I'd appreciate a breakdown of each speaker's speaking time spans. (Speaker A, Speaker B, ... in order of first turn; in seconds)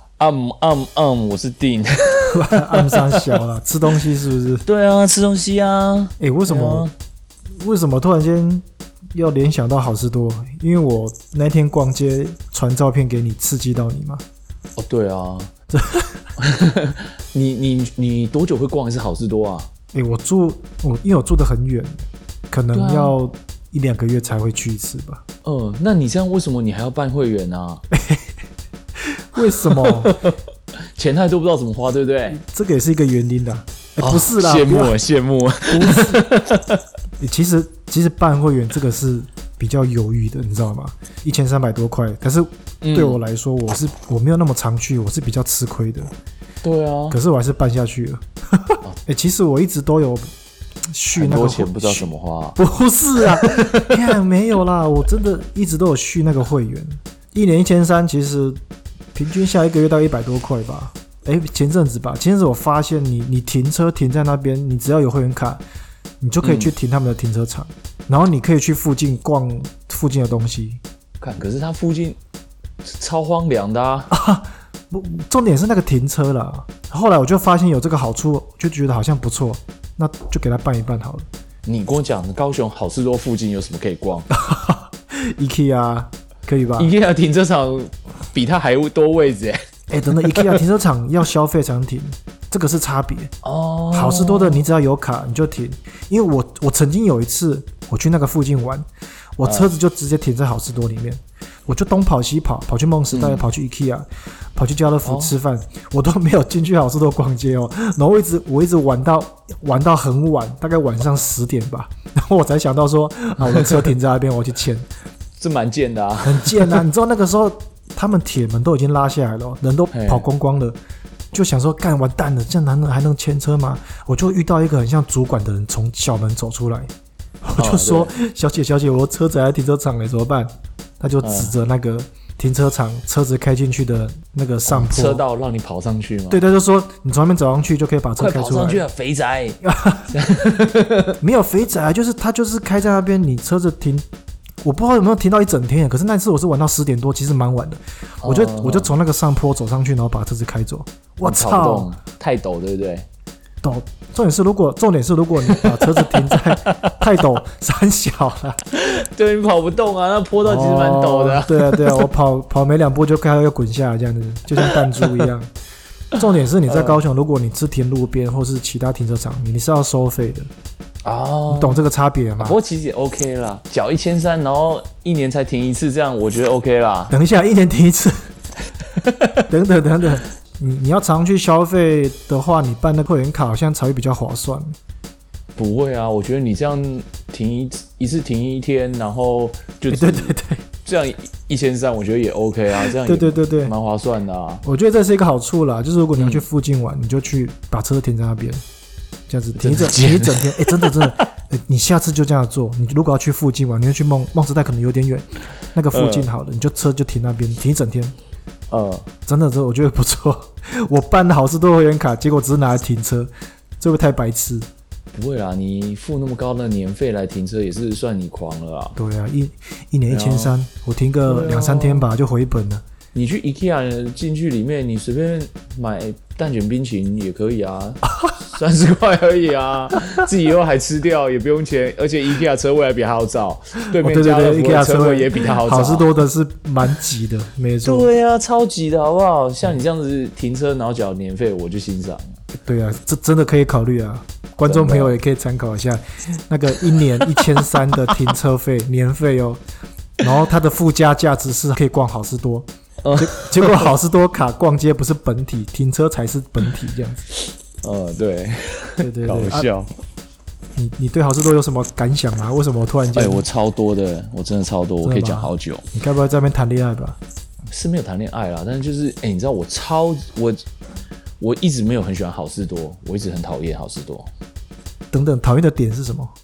Speaker A: 0.2-3.4, 4.7-6.9, 14.8-15.5, 16.4-19.7, 22.7-23.2, 25.4-27.8, 29.4-30.4, 30.9-32.4, 34.0-36.8, 42.8-43.2, 46.6-47.2, 51.1-52.6, 53.2-54.0, 66.4-66.7, 71.2-72.2, 72.8-74.1, 81.7-84.3, 86.8-89.6, 90.2-90.6, 93.4-94.7, 99.4-99.7, 103.1-103.5, 105.0-105.3, 113.4-113.9, 115.4-116.8, 119.9-120.3, 127.6-128.1, 131.2-131.6, 134.7-136.4, 138.2-141.2, 148.2-148.9, 151.2-153.1, 155.5-157.0, 158.7-162.1, 164.6-165.3, 166.7-167.0, 171.0-171.8, 172.4-177.1, 179.0-179.4, 185.6-194.6, 196.2-196.4, 199.6-201.1, 205.9-206.3, 208.7-209.1, 215.1-219.0, 220.1-220.6, 221.3-222.1, 223.1-236.1, 237.8-242.4, 244.7-245.1, 247.2-247.5, 253.0-253.9, 257.8-259.9, 263.1-265.8, 267.7-270.6, 271.4-274.3
Speaker B: 2.3-4.7, 6.2-6.9, 7.6-14.2, 15.7-16.1, 19.9-25.2, 27.9-28.3, 29.0-30.1, 32.3-35.0, 35.7-36.2, 37.2-46.1, 47.1-50.3, 50.9-58.6, 59.1-65.6, 66.2-70.8, 74.1-81.2, 84.3-86.9, 89.9-93.3, 93.9-98.8, 99.4-114.9, 116.2-120.8, 121.3-126.9, 127.4-135.2, 136.3-138.8, 139.6-140.2, 141.2-144.0, 144.6-151.9, 153.6-158.6, 160.4-165.5, 166.2-170.5, 171.5-172.6, 177.1-178.3, 179.5-184.8, 189.9-190.6, 192.8-193.7, 194.6-198.6, 199.3-208.2, 209.3-214.7, 219.0-222.8, 234.0-238.1, 242.5-249.6, 250.2-257.2, 259.0-259.7, 260.8-263.4, 265.0-267.2, 275.1-276.3